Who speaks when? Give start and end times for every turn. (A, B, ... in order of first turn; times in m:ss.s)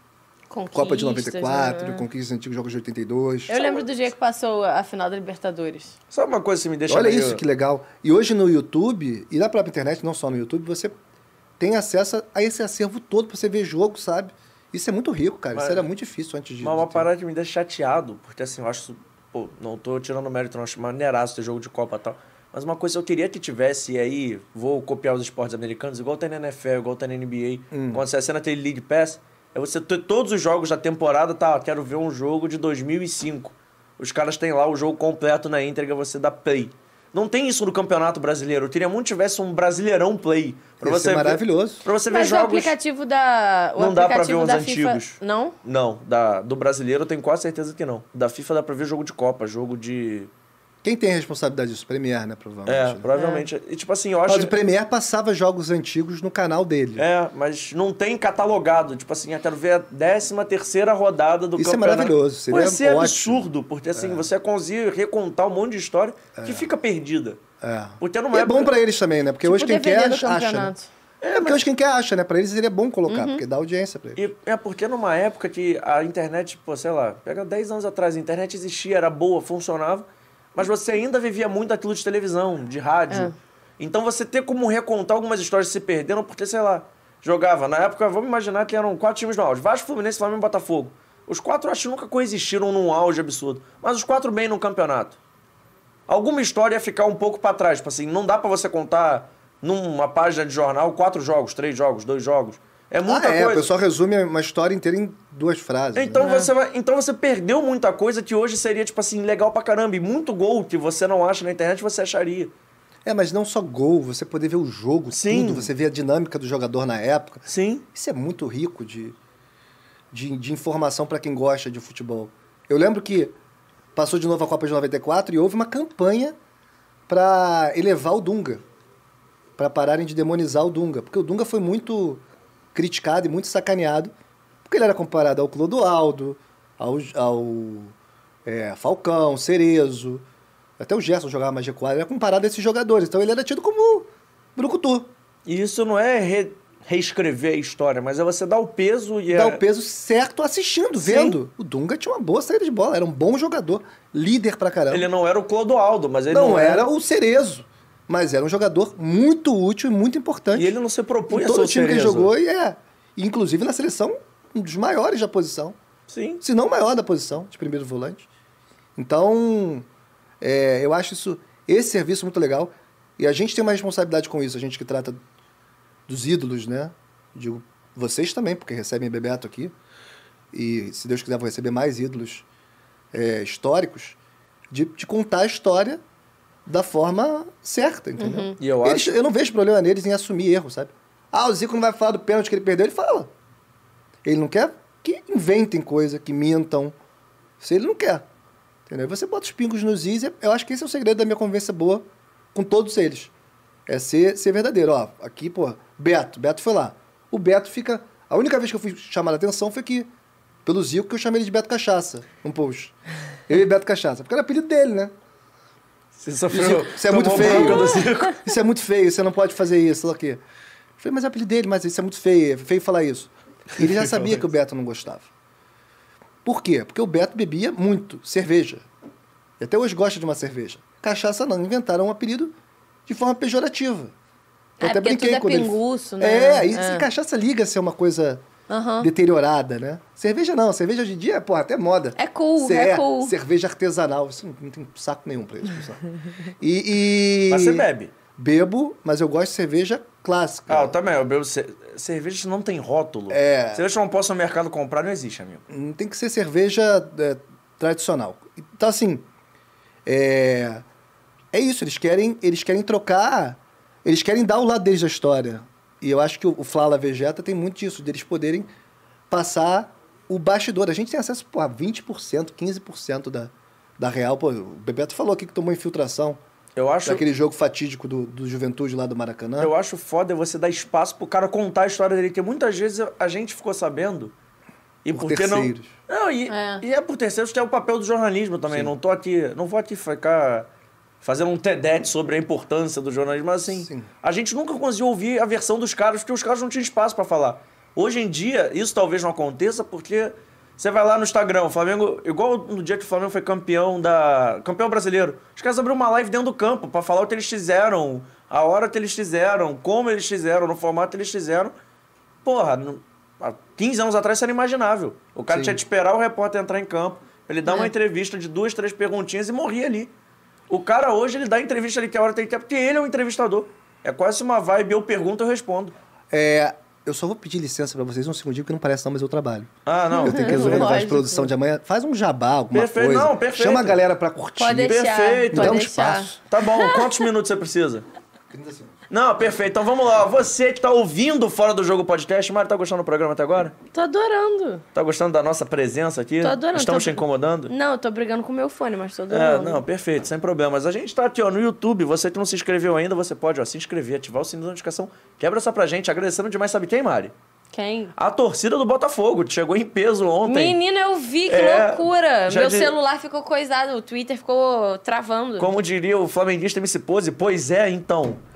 0:00.5-0:02.0 A
0:00.7-0:03.9 B
0:03.5-0:05.9 A
0:06.1-0:07.4 C
0:06.9-0:10.9 B
0:11.6-0:17.1 B
0:15.5-0:15.8 C
0:16.6-0:42.7 C
0:27.7-0:28.0 B
0:40.8-0:41.8 B
0:42.1-0:45.6 A
0:43.8-0:50.3 C
0:50.8-0:53.0 B
0:52.6-0:54.5 C
0:53.2-0:53.4 A
0:54.3-0:57.0 B
0:57.0-1:07.4 C
1:01.6-1:04.3 B
1:06.4-1:06.7 B
1:07.6-1:10.7 B
1:08.0-1:08.7 C
1:09.4-1:10.9 A
1:11.2-1:11.6 C
1:11.4-1:14.2 B
1:13.1-1:13.4 A
1:14.2-1:35.2 C
1:36.1-1:43.7 C
1:43.0-1:46.3 B
1:45.9-1:52.5 C
1:46.2-1:46.5 A
1:53.0-1:59.2 B
1:55.1-1:55.7 C
1:57.4-1:57.8 C
2:00.1-2:03.3 B
2:03.9-2:06.4 B
2:07.1-2:08.6 B
2:09.6-2:12.2 B
2:12.7-2:14.1 B
2:14.6-2:17.9 B
2:18.4-2:20.2 B
2:20.8-2:25.1 B
2:25.4-2:29.6 C
2:29.3-2:35.1 B
2:31.0-2:31.4 C
2:34.9-2:36.9 C
2:36.3-2:40.7 B
2:40.5-2:42.3 C
2:41.3-2:45.8 B
2:46.1-2:46.4 C
2:46.4-2:48.3 B
2:49.0-2:49.8 B
2:50.4-2:55.2 B
2:56.1-2:59.7 B
3:00.5-3:02.4 B
3:03.1-3:04.2 B
3:04.7-3:06.0 B
3:06.6-3:13.3 B
3:08.2-3:08.6 A
3:08.6-3:09.2 C
3:14.2-3:16.9 B
3:17.6-3:18.2 B
3:18.9-3:23.3 B
3:23.9-3:30.1 B
3:30.6-3:32.9 B
3:33.5-3:35.1 B
3:36.1-3:38.4 C
3:36.5-3:40.4 B
3:37.4-3:38.0 A
3:41.0-3:45.3 B
3:43.8-3:44.4 C
3:46.4-3:48.8 B
3:49.6-3:52.5 B
3:53.1-3:54.1 B
3:54.8-3:57.0 A
3:54.8-3:58.4 B
3:58.7-3:59.1 A
3:59.0-4:06.0 B
4:02.2-4:03.3 A
4:06.6-4:11.0 B
4:07.5-4:08.1 C
4:10.7-4:15.6 C
4:13.3-4:13.8 B
4:15.7-4:19.2 B
4:20.0-4:20.8 B
4:21.5-4:28.7 B
4:29.3-4:36.4 B
4:36.8-4:37.2 C
4:37.0-4:39.7 B
4:39.6-4:44.3 C
4:45.0-4:50.7 C
4:45.1-4:45.9 B
4:46.5-4:46.8 A
4:48.7-4:48.9 B
4:51.2-5:11.7 C
4:53.7-4:54.1 B
5:12.4-5:20.1 C
5:15.5-5:15.8 B
5:17.6-5:17.9 A
5:20.7-5:25.9 C
5:26.3-5:29.7 B
5:29.8-5:30.9 C
5:30.1-5:31.5 A
5:30.2-5:34.9 B
5:32.7-5:34.0 C
5:34.6-5:37.3 A
5:34.7-5:35.8 C
5:35.5-5:36.3 B
5:36.5-5:38.0 C
5:38.5-5:38.9 B
5:39.1-5:43.7 C
5:43.9-5:44.8 A
5:44.9-5:47.7 C
5:46.4-5:49.8 A
5:49.3-5:57.3 C
5:57.7-5:58.1 A
5:58.1-6:00.8 C
6:00.4-6:05.7 A
6:01.5-6:02.9 C
6:05.6-6:08.4 C